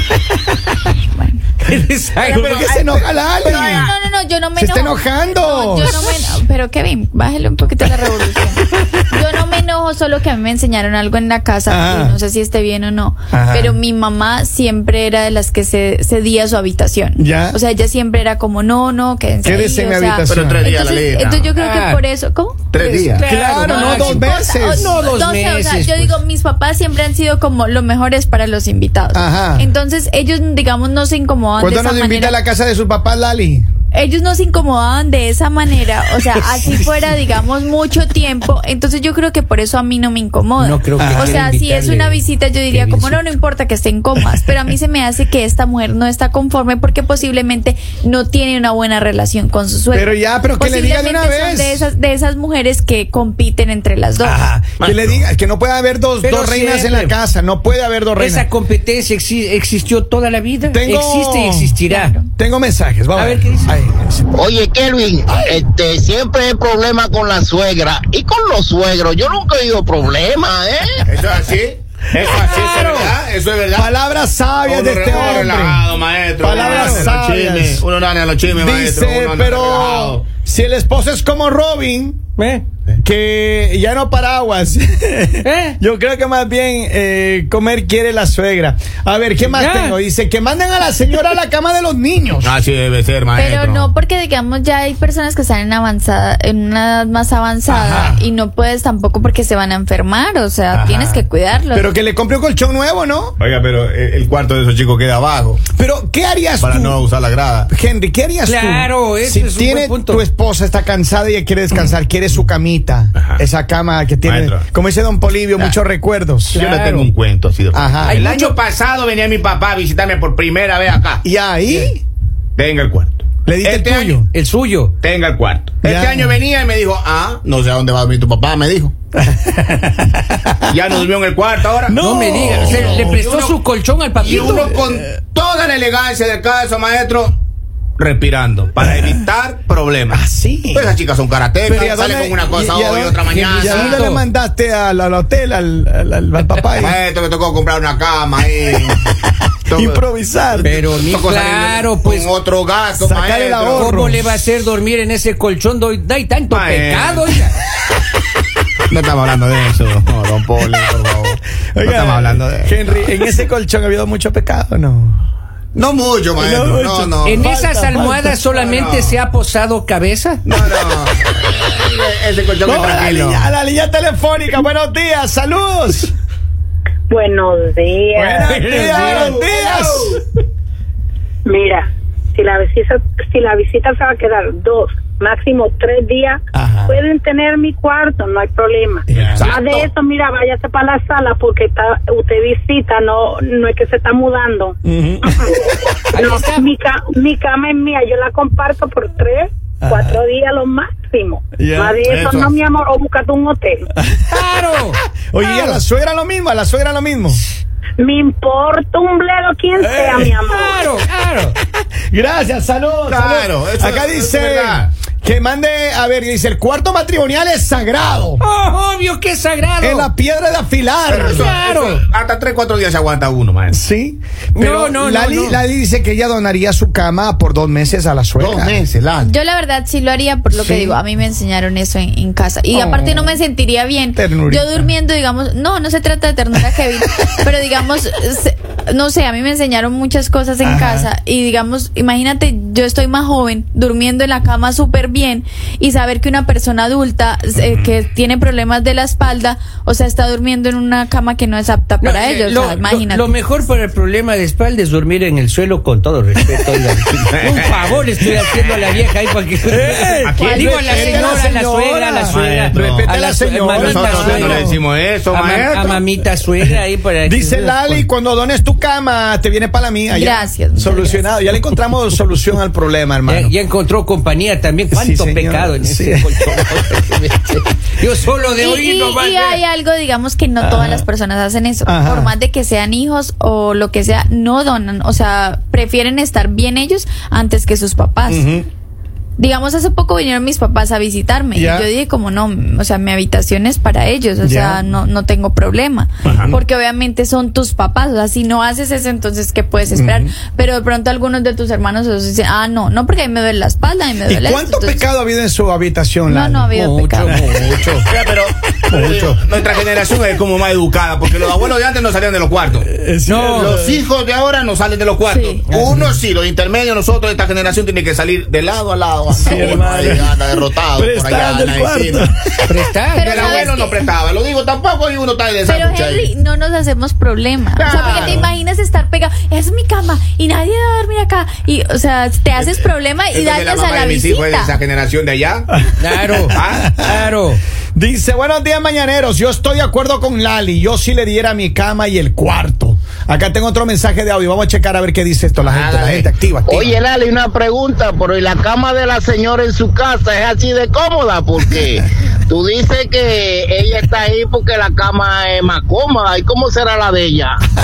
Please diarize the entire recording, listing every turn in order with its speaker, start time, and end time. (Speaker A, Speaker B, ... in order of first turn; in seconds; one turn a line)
Speaker A: 1.1-1.4
Speaker B: 1.6-2.5
Speaker C: 2.2-3.9
Speaker D: 2.3-3.9
Speaker A: 3.4-23.1
Speaker D: 4.6-6.2
Speaker D: 11.7-12.2
Speaker D: 13.3-13.8
Speaker D: 17.2-17.6
Speaker D: 19.4-20.7
Speaker C: 20.3-21.5
Speaker B: 21.6-22.0
Speaker C: 22.7-23.3
Speaker B: 23.1-26.2
Speaker D: 23.2-25.0
Speaker A: 23.6-32.4
Speaker D: 29.1-29.7
Speaker D: 31.6-33.7
Speaker A: 33.9-54.4
Speaker B: 40.6-43.3
Speaker D: 41.0-41.5
Speaker D: 49.9-51.9
Speaker D: 54.2-58.5
Speaker C: 54.8-55.2
Speaker B: 56.2-57.1
Speaker B: 58.2-62.2
Speaker D: 60.7-61.8
Speaker A: 61.9-62.2
Speaker D: 62.3-64.3
Speaker B: 63.1-63.8
Speaker E: 64.3-71.0
Speaker C: 71.1-73.9
Speaker B: 72.3-73.2
Speaker D: 73.8-75.9
Speaker C: 74.6-80.2
Speaker B: 75.1-75.5
Speaker D: 76.4-77.8
Speaker B: 76.5-77.1
Speaker D: 78.5-82.2
Speaker B: 82.4-82.6
Speaker D: 83.0-92.5
Speaker B: 85.4-85.8
Speaker B: 89.4-90.0
Speaker C: 92.4-93.9
Speaker A: 93.3-101.9
Speaker D: 97.7-98.2
Speaker D: 100.7-103.4
Speaker C: 103.4-105.7
Speaker D: 105.7-107.0
Speaker C: 106.6-107.7
Speaker D: 107.7-116.6
Speaker B: 108.5-110.3
Speaker C: 113.2-113.4
Speaker C: 114.2-114.7
Speaker B: 116.5-117.1
Speaker C: 116.5-121.2
Speaker D: 117.7-118.2
Speaker B: 118.0-118.6
Speaker D: 121.2-122.0
Speaker C: 122.6-124.2
Speaker D: 123.5-124.3
Speaker B: 124.3-125.0
Speaker C: 125.0-128.9
Speaker D: 125.8-126.4
Speaker D: 129.2-131.0
Speaker C: 130.7-133.6
Speaker D: 131.9-133.2
Speaker B: 131.9-134.8
Speaker C: 134.2-137.4
Speaker D: 134.3-135.1
Speaker C: 138.0-144.0
Speaker D: 138.8-139.2
Speaker D: 140.1-140.9
Speaker D: 141.6-147.0
Speaker B: 143.3-144.2
Speaker C: 146.8-149.0
Speaker C: 149.7-153.9
Speaker D: 149.7-150.7
Speaker B: 150.6-152.3
Speaker D: 153.0-154.3
Speaker B: 153.7-157.6
Speaker C: 156.5-157.3
Speaker C: 158.9-162.8
Speaker D: 160.6-160.9
Speaker D: 161.7-165.2
Speaker C: 165.7-167.5
Speaker D: 166.4-168.4
Speaker B: 167.2-170.4
Speaker C: 168.4-169.2
Speaker C: 170.5-173.5
Speaker D: 172.6-176.1
Speaker F: 177.1-179.1
Speaker D: 178.2-180.2
Speaker B: 178.5-179.4
Speaker C: 179.0-180.2
Speaker F: 181.4-203.8
Speaker D: 186.5-187.0
Speaker D: 189.1-189.5
Speaker C: 189.1-189.9
Speaker D: 194.8-196.0
Speaker B: 196.1-196.7
Speaker D: 199.8-200.2
Speaker D: 201.6-202.0
Speaker C: 202.0-202.6
Speaker D: 203.9-204.4
Speaker B: 204.3-205.8
Speaker D: 205.3-207.4
Speaker F: 208.0-210.9
Speaker D: 209.8-210.4
Speaker B: 210.5-211.6
Speaker D: 212.1-218.4
Speaker C: 213.1-214.9
Speaker B: 218.4-220.1
Speaker D: 219.8-221.6
Speaker C: 221.1-223.8
Speaker B: 221.1-222.1
Speaker D: 223.7-228.8
Speaker B: 224.6-225.6
Speaker C: 228.4-229.3
Speaker A: 229.2-253.3
Speaker D: 230.5-231.0
Speaker D: 232.7-233.4
Speaker D: 234.1-234.9
Speaker D: 240.6-241.1
Speaker B: 252.0-264.7
Speaker C: 257.1-258.6
Speaker D: 259.7-264.8
Speaker C: 260.2-261.2
Speaker A: 260.4-261.4
Speaker C: 262.3-263.1
Speaker C: 263.7-266.0
Speaker B: 265.3-268.1
Speaker D: 267.2-273.5
Speaker A: 270.1-271.3
Speaker B: 273.3-279.6
Speaker D: 274.9-276.3
Speaker A: 278.6-288.5
Speaker D: 280.6-281.1
Speaker D: 281.9-282.3
Speaker D: 288.3-288.7
Speaker A: 289.4-305.1
Speaker D: 291.5-291.9
Speaker D: 294.4-294.9
Speaker D: 296.2-296.6
Speaker C: 296.2-296.5
Speaker D: 299.9-300.3
Speaker D: 304.3-306.7
Speaker A: 306.3-307.4
Speaker B: 306.7-308.1
Speaker D: 307.3-309.4
Speaker C: 308.3-312.9
Speaker D: 312.8-314.0
Speaker B: 313.2-313.8
Speaker C: 313.5-322.3
Speaker A: 315.3-315.6
Speaker B: 315.7-316.1
Speaker D: 319.3-322.8
Speaker B: 322.7-323.6
Speaker A: 323.1-324.0
Speaker C: 323.2-326.3
Speaker A: 325.6-334.8
Speaker C: 327.8-328.5
Speaker C: 333.3-335.7
Speaker D: 335.7-337.3
Speaker B: 336.0-337.6
Speaker C: 336.5-336.9
Speaker D: 337.9-346.9
Speaker C: 345.6-346.3
Speaker E: 346.7-357.6